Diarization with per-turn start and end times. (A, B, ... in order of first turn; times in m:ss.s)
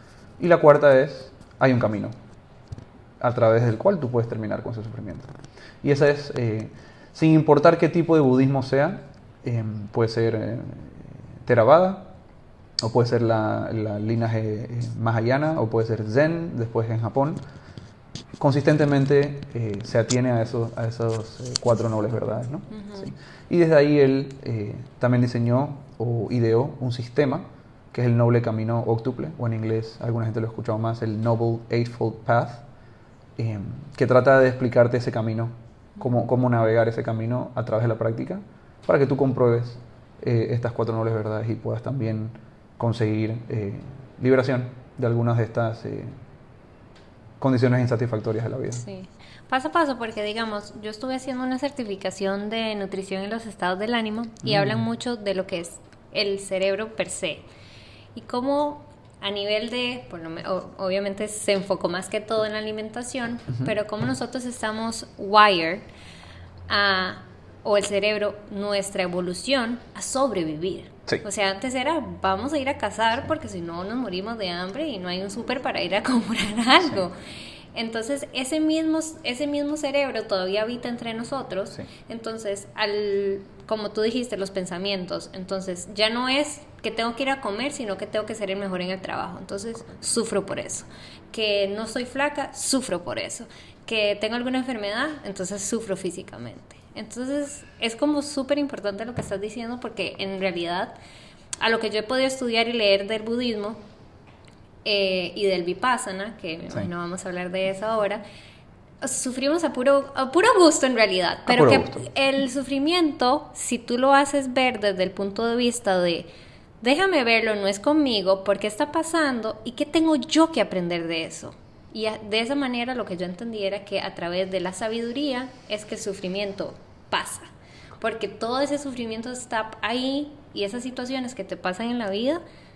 0:00.4-0:02.1 A
0:03.2-0:05.3 A
0:05.8-0:12.1 A
0:12.8-0:17.4 A
0:18.4-0:32.6 A
0:22.7-0:23.1 B
0:33.4-0:46.1 A
0:47.4-0:48.8 A
0:48.8-0:57.4 B
0:54.4-0:54.8 A
0:58.1-1:05.8 B
1:06.7-1:17.1 B
1:17.7-1:41.0 B
1:41.6-1:43.8 B
1:44.8-1:48.2 B
1:49.0-1:56.3 B
1:51.5-1:52.0 A
1:56.8-2:12.4 B